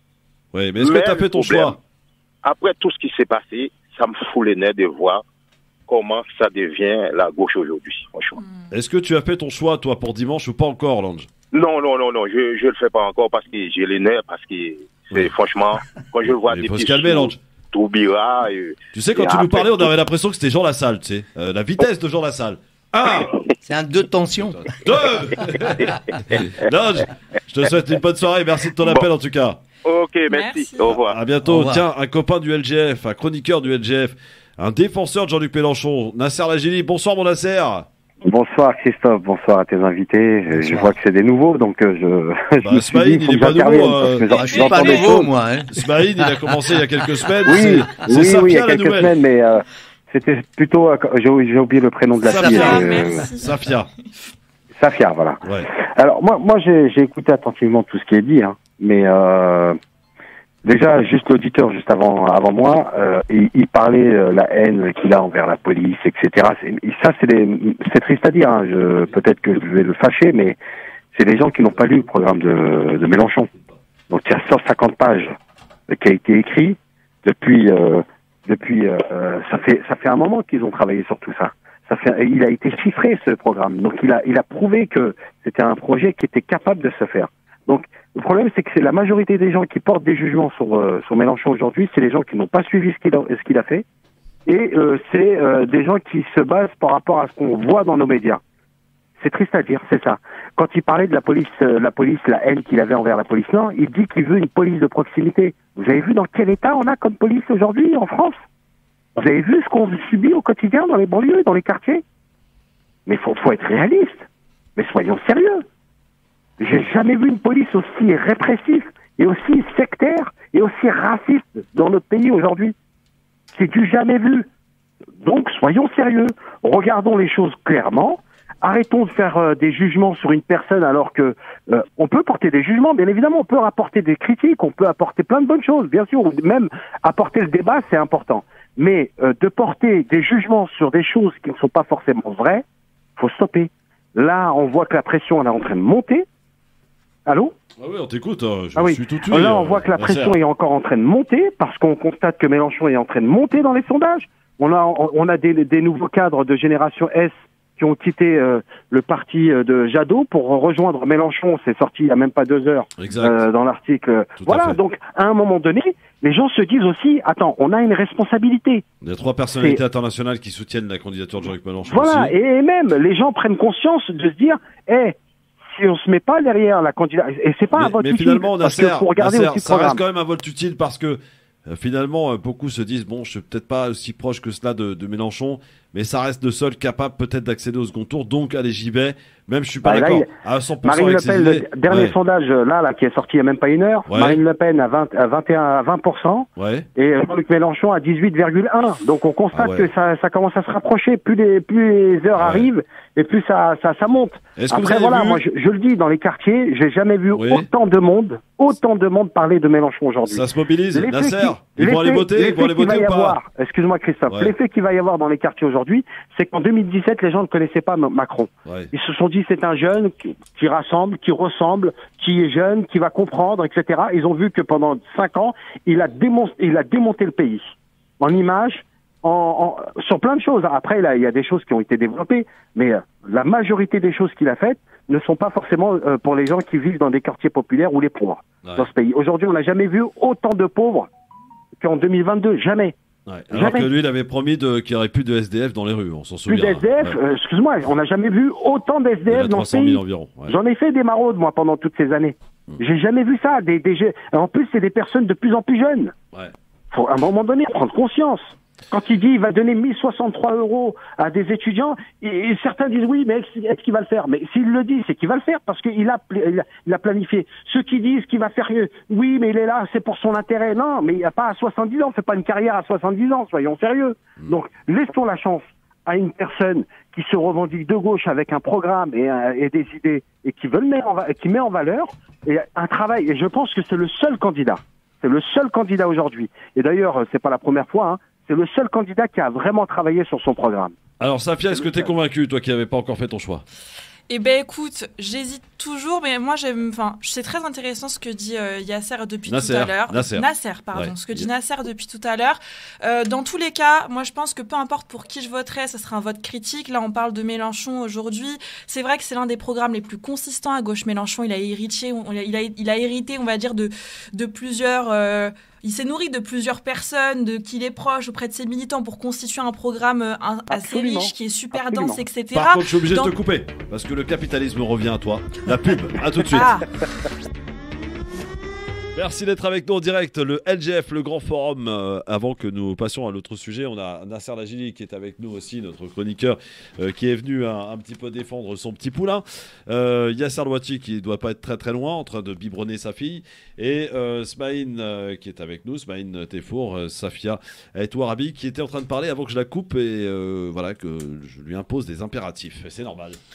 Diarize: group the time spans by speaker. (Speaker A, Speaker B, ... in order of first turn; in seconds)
Speaker A: 0.5-1.8, 8.7-11.3, 16.4-17.4, 18.9-23.3, 24.4-29.6, 30.9-37.9, 42.6-49.1, 52.3-53.9, 72.7-73.8, 147.8-150.4, 163.0-163.4, 164.4-164.8, 169.0-172.3, 177.7-192.2, 194.1-194.4, 196.6-196.9, 199.5-199.9, 202.3-202.7, 204.6-205.4, 207.3-207.7, 210.3-213.4, 214.3-214.5, 218.7-218.9, 238.6-238.9, 243.3-247.2, 249.3-250.6, 291.2-293.6, 299.5-301.4, 322.5-326.8, 329.1-353.4
Speaker B: 0.8-1.8, 2.4-5.2, 5.9-8.4, 11.5-19.9, 29.9-31.2
Speaker C: 8.4-8.7, 30.3-30.9, 44.3-45.1, 52.2-53.6, 294.3-323.4, 326.5-326.9
Speaker D: 23.6-24.7, 31.4-31.9, 40.5-40.9, 44.3-46.4
Speaker E: 38.2-45.2, 47.5-53.3, 54.8-55.4, 55.9-59.8, 60.6-70.6, 71.1-73.5, 74.1-75.3, 75.9-93.8, 94.5-98.4, 99.2-108.4, 109.2-112.0, 113.1-115.6, 116.6-122.8, 123.5-124.5, 125.2-142.6, 143.2-146.3, 147.3-147.5, 148.8-168.8, 171.9-175.2, 175.7-180.0, 189.8-190.3, 190.8-227.6, 228.2-241.1, 241.8-242.9, 243.5-243.9, 246.5-256.1, 256.9-290.9, 291.8-292.1, 320.7-322.2